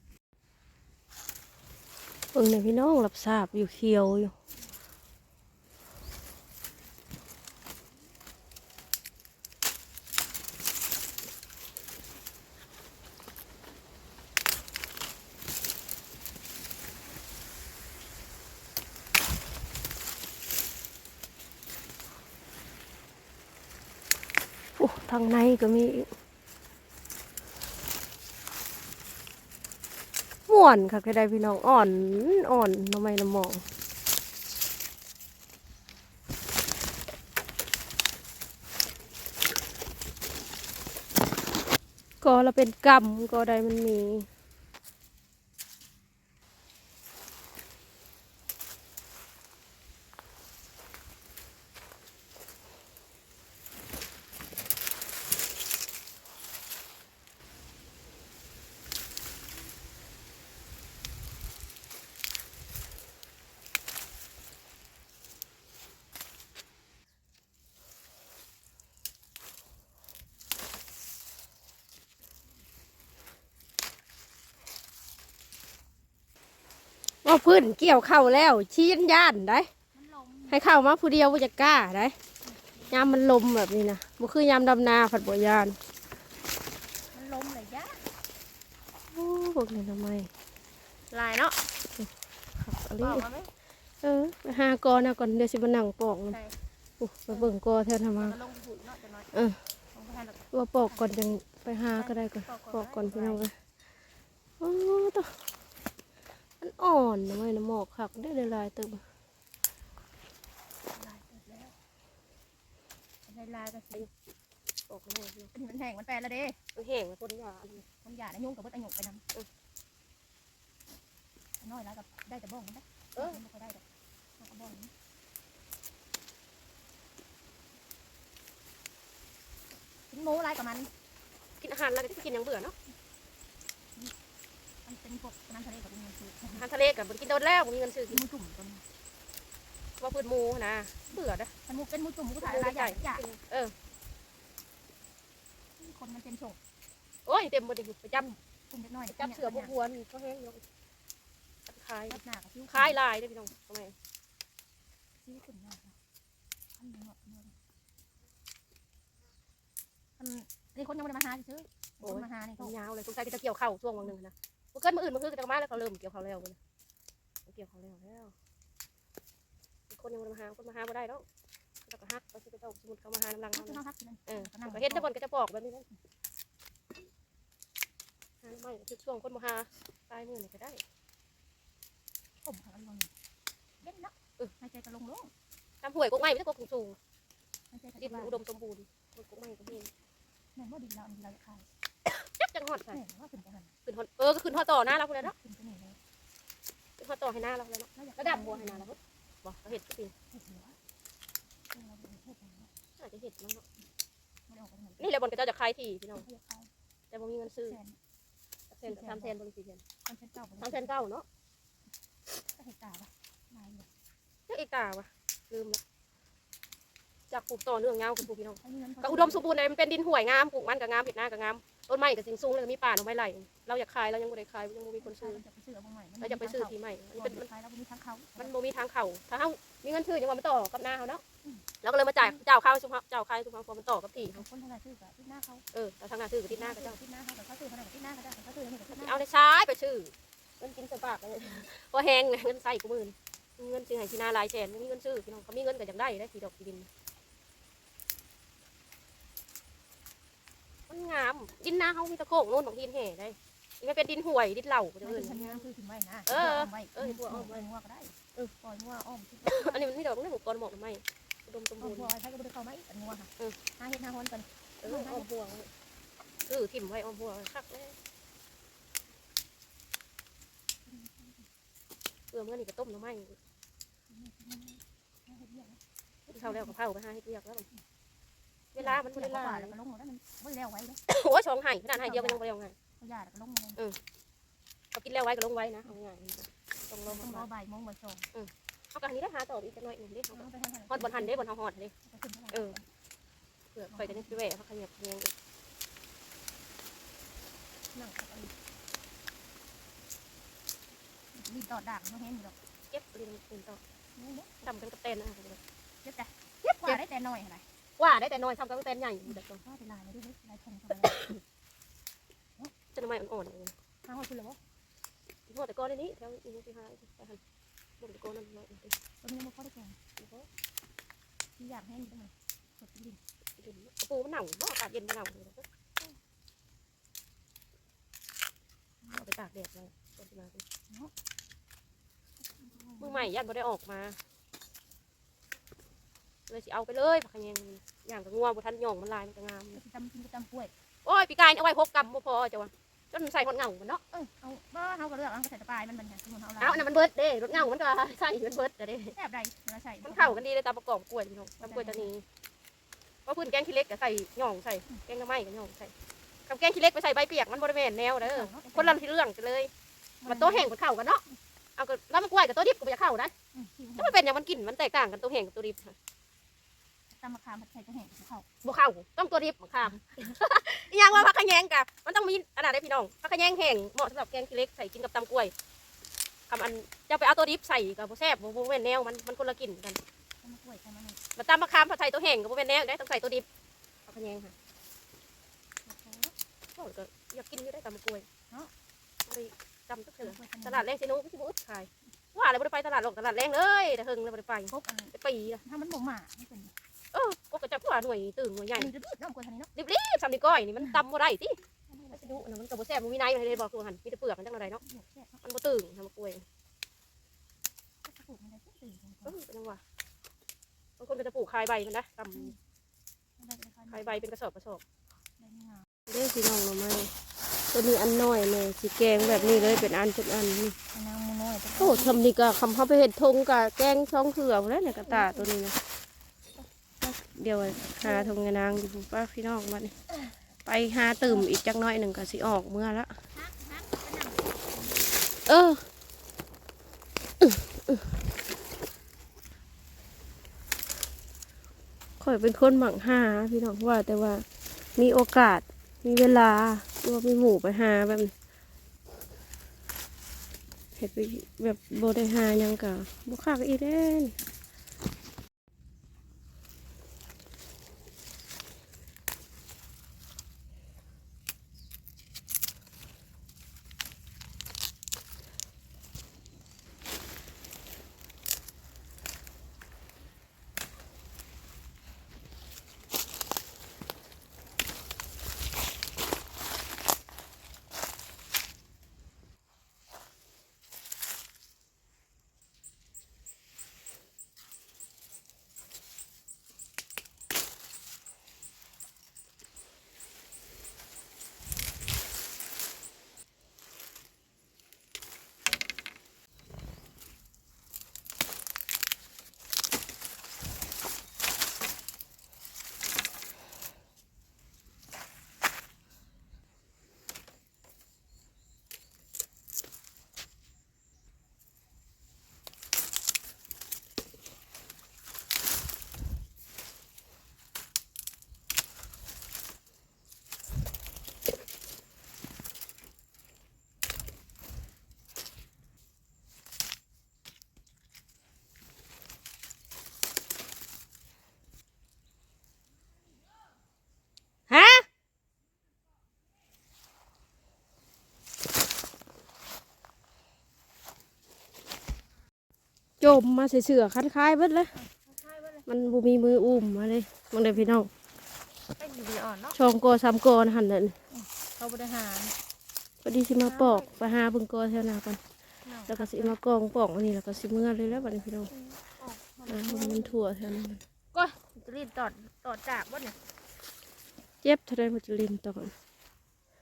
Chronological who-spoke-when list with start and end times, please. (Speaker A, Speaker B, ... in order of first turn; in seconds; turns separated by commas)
Speaker A: 2.3-4.3, Speaker A: 24.8-26.1, Speaker A: 30.5-33.6, Speaker A: 42.2-44.3, Speaker A: 77.2-79.7, Speaker B: 79.9-80.6, Speaker A: 80.5-82.1, Speaker B: 82.4-83.2, Speaker A: 82.9-85.8, Speaker B: 87.1-88.1, Speaker A: 89.1-90.3, Speaker B: 91.1-91.6, Speaker A: 92.6-93.3, Speaker B: 93.0-93.5, Speaker A: 94.0-96.4, Speaker B: 96.3-96.5, Speaker A: 97.0-98.3, Speaker B: 98.2-99.3, Speaker B: 99.9-101.2, Speaker A: 100.5-103.5, Speaker B: 102.0-103.4, Speaker A: 104.6-105.3, Speaker A: 106.6-109.0, Speaker B: 110.9-111.8, Speaker B: 113.2-114.1, Speaker A: 114.9-115.5, Speaker B: 115.5-116.6, Speaker A: 116.8-117.8, Speaker B: 117.8-119.2, Speaker B: 121.6-123.8, Speaker B: 124.4-124.9, Speaker B: 130.1-130.9, Speaker A: 131.6-132.7, Speaker B: 134.8-136.6, Speaker A: 136.5-138.2, Speaker B: 138.1-138.8, Speaker A: 140.0-141.5, Speaker B: 141.7-143.2, Speaker A: 142.4-143.7, Speaker B: 145.8-146.6, Speaker A: 147.3-148.3, Speaker B: 148.2-149.7, Speaker A: 149.1-150.6, Speaker A: 151.7-152.2, Speaker B: 152.1-153.0, Speaker A: 152.7-153.9, Speaker B: 155.2-156.0, Speaker B: 156.8-157.6, Speaker B: 160.2-162.7, Speaker A: 162.0-166.6, Speaker A: 167.4-168.3, Speaker A: 169.9-171.2, Speaker A: 171.8-175.8, Speaker B: 173.5-175.1, Speaker A: 178.4-180.8, Speaker B: 182.4-183.1, Speaker B: 183.8-185.3, Speaker A: 185.8-187.0, Speaker B: 187.7-188.4, Speaker A: 188.0-189.9, Speaker B: 190.5-191.7, Speaker A: 192.1-193.0, Speaker B: 192.9-193.7, Speaker A: 193.9-195.3, Speaker B: 195.1-196.0, Speaker A: 197.0-200.1, Speaker B: 197.9-198.9, Speaker B: 200.3-200.8, Speaker B: 201.7-202.7, Speaker A: 203.0-203.6, Speaker B: 204.5-205.1, Speaker A: 205.0-206.2, Speaker B: 206.2-206.7, Speaker A: 207.1-207.8, Speaker B: 207.6-208.0, Speaker A: 208.7-209.8, Speaker B: 208.8-209.4, Speaker B: 210.0-210.9, Speaker A: 210.6-211.2, Speaker B: 212.4-213.9, Speaker A: 214.5-215.8, Speaker A: 217.3-225.4, Speaker B: 218.6-219.5, Speaker B: 225.0-228.5, Speaker A: 226.2-227.5, Speaker A: 228.4-231.2, Speaker A: 231.8-234.4, Speaker B: 234.2-235.6, Speaker A: 235.7-237.0, Speaker B: 236.5-239.2, Speaker A: 238.9-246.9, Speaker A: 250.9-255.6, Speaker B: 255.0-259.9, Speaker A: 256.3-257.6, Speaker A: 259.4-262.1, Speaker B: 261.8-265.3, Speaker A: 264.8-265.7, Speaker A: 266.5-267.9, Speaker B: 270.9-271.5, Speaker A: 272.3-273.4, Speaker B: 274.1-276.7, Speaker A: 276.3-277.6, Speaker A: 278.7-279.8, Speaker B: 278.8-281.0, Speaker A: 281.1-282.7, Speaker B: 281.9-282.4, Speaker B: 283.0-283.8, Speaker A: 284.9-287.5, Speaker B: 287.1-288.2, Speaker A: 288.3-291.9, Speaker B: 290.3-291.4, Speaker B: 292.0-292.9, Speaker A: 293.8-295.3, Speaker B: 293.9-294.4, Speaker B: 297.9-298.5, Speaker B: 301.3-302.6, Speaker A: 302.9-303.8, Speaker B: 304.1-304.5, Speaker A: 304.6-305.6, Speaker B: 306.0-307.6, Speaker A: 306.7-307.0, Speaker A: 308.0-309.6, Speaker B: 309.2-311.3, Speaker A: 312.9-313.7, Speaker B: 314.0-314.6, Speaker A: 315.5-317.4, Speaker A: 318.0-318.9, Speaker B: 319.2-320.0, Speaker A: 320.2-320.5, Speaker B: 321.6-323.2, Speaker A: 323.6-325.6, Speaker A: 329.1-330.6, Speaker B: 332.4-333.3, Speaker A: 333.0-334.2, Speaker A: 336.5-339.8, Speaker B: 339.7-340.7, Speaker A: 341.1-344.0, Speaker B: 344.1-346.9, Speaker A: 346.6-349.1, Speaker B: 349.1-350.4, Speaker A: 350.0-352.2, Speaker B: 351.6-352.1, Speaker A: 353.3-355.9, Speaker A: 356.5-359.7, Speaker B: 358.2-359.0, Speaker B: 360.2-360.7, Speaker A: 360.3-361.2, Speaker A: 361.8-363.3, Speaker B: 363.5-364.2, Speaker A: 364.0-365.9, Speaker B: 367.1-368.5, Speaker A: 368.6-375.5, Speaker A: 376.5-380.0, Speaker B: 380.4-381.2, Speaker A: 381.4-383.4, Speaker A: 384.1-384.5, Speaker B: 385.9-386.3, Speaker A: 386.8-388.2, Speaker A: 389.3-395.6, Speaker B: 390.2-390.9, Speaker B: 394.7-396.7, Speaker A: 397.1-398.9, Speaker B: 398.7-399.7, Speaker A: 399.8-401.6, Speaker B: 401.9-402.5, Speaker A: 402.1-404.8, Speaker B: 404.8-405.4, Speaker A: 405.4-406.4, Speaker B: 408.0-409.4, Speaker A: 409.2-409.8, Speaker A: 411.0-412.5, Speaker B: 413.4-414.2, Speaker A: 413.9-414.8, Speaker B: 415.4-415.9, Speaker A: 416.1-417.1, Speaker A: 417.7-420.8, Speaker B: 420.9-422.1, Speaker A: 421.8-425.8, Speaker B: 424.8-425.5, Speaker A: 427.0-430.0, Speaker B: 428.0-428.3, Speaker A: 430.6-433.1, Speaker B: 433.3-435.0, Speaker A: 435.5-435.8, Speaker A: 437.4-438.0, Speaker A: 442.2-444.4, Speaker A: 445.0-448.3, Speaker A: 451.0-454.4, Speaker A: 534.7-535.0, Speaker A: 543.2-544.9, Speaker B: 544.9-545.8, Speaker A: 545.9-548.1, Speaker B: 549.0-549.8, Speaker A: 549.7-551.1, Speaker B: 551.3-552.5, Speaker A: 553.2-555.4, Speaker B: 553.6-554.1, Speaker B: 555.8-556.5, Speaker A: 556.1-558.7, Speaker B: 558.7-560.4, Speaker A: 559.7-561.0, Speaker B: 561.3-563.4, Speaker A: 564.6-565.9